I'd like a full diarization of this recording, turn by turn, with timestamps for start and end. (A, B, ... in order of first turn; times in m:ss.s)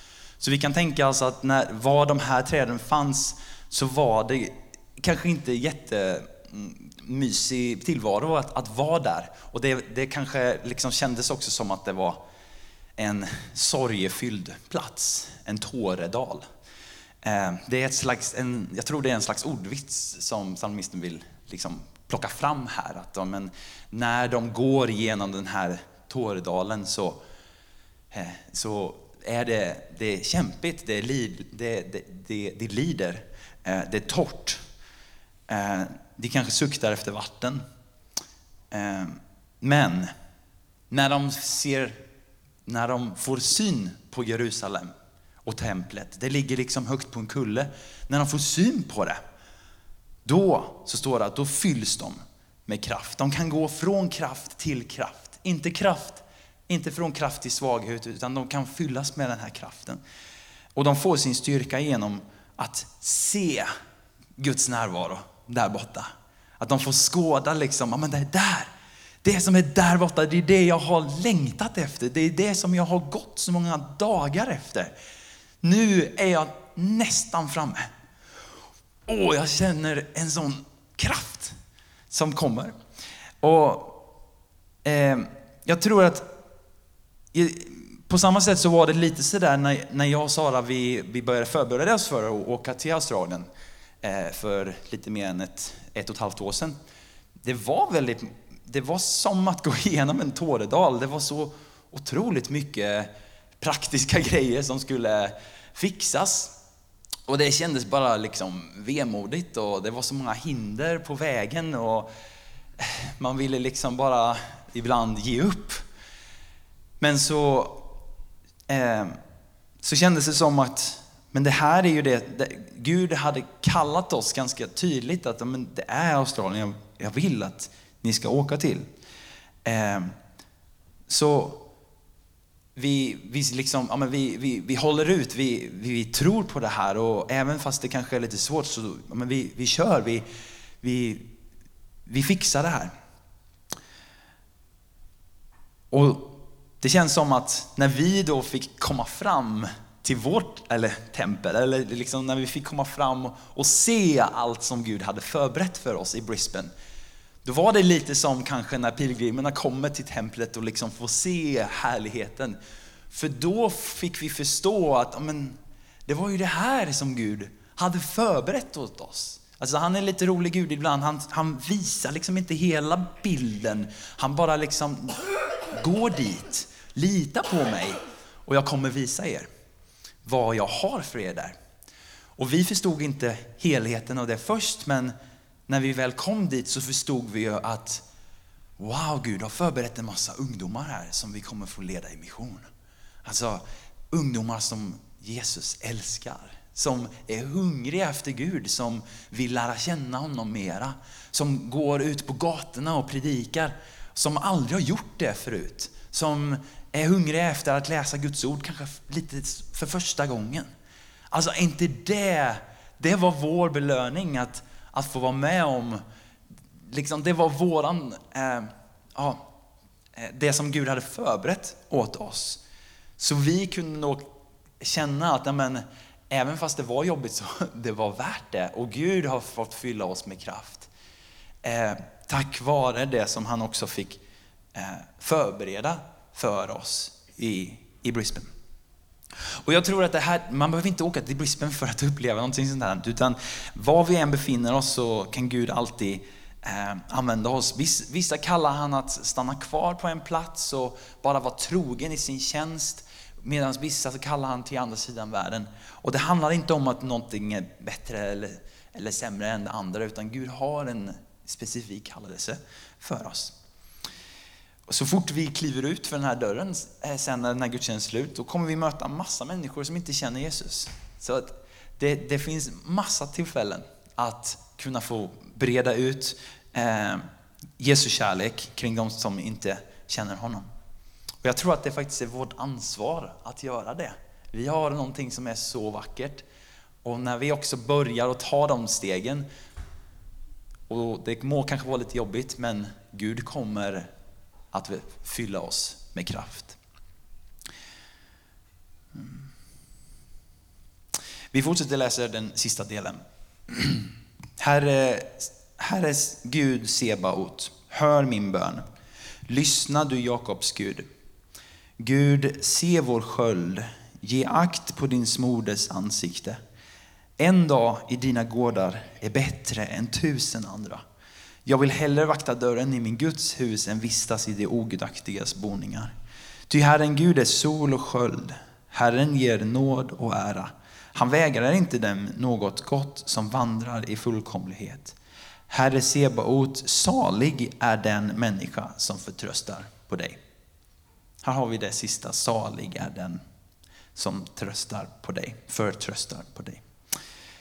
0:00.4-0:12.2 A
0:13.0-0:16.4 A
0:17.2-0:27.2 A
0:28.1-0:34.6 A
0:35.5-0:37.6 A
0:38.7-0:40.1 A
0:40.9-0:42.0 A
0:42.6-0:44.9 A
0:45.4-0:49.2 A
0:50.2-1:00.0 A
1:00.8-1:03.7 A
1:04.4-1:08.7 A
1:09.2-1:14.9 A
1:15.6-1:17.9 A
1:19.1-1:21.5 A
1:22.1-1:22.7 A
1:23.4-1:24.0 A
1:24.8-1:26.3 A
1:27.3-1:33.5 A
1:34.0-1:36.8 A
1:37.4-1:46.5 A
1:47.3-1:52.1 A
1:52.8-1:55.8 A
1:57.0-1:57.8 A
1:58.7-1:59.2 A
1:59.8-2:08.8 A
2:09.6-2:10.1 A
2:11.1-2:11.6 A
2:12.8-2:20.2 A
2:20.8-2:21.3 A
2:22.1-2:22.9 A
2:25.9-2:36.7 A
2:37.4-2:42.6 A
2:43.1-2:59.5 A
3:00.2-3:01.6 A
3:02.4-3:05.1 A
3:05.7-3:08.0 A
3:08.8-3:12.7 A
3:13.2-3:30.7 A
3:31.3-3:36.0 A
3:36.9-3:39.5 A
3:40.2-3:42.6 A
3:43.2-3:44.3 A
3:44.8-3:50.9 A
3:51.6-3:54.2 A
3:54.8-3:58.5 A
3:59.6-4:23.5 A
4:24.9-4:37.2 A
4:37.8-4:40.7 A
4:41.4-4:46.4 A
4:47.0-4:49.5 A
4:50.9-4:54.1 A
4:54.7-4:56.8 A
5:01.5-5:08.8 A
5:09.5-5:11.1 A
5:12.0-5:16.6 A
5:17.4-5:21.0 A
5:21.6-5:26.1 A
5:26.7-5:35.2 A
5:35.7-5:40.4 A
5:41.4-5:43.4 A
5:44.1-5:46.8 A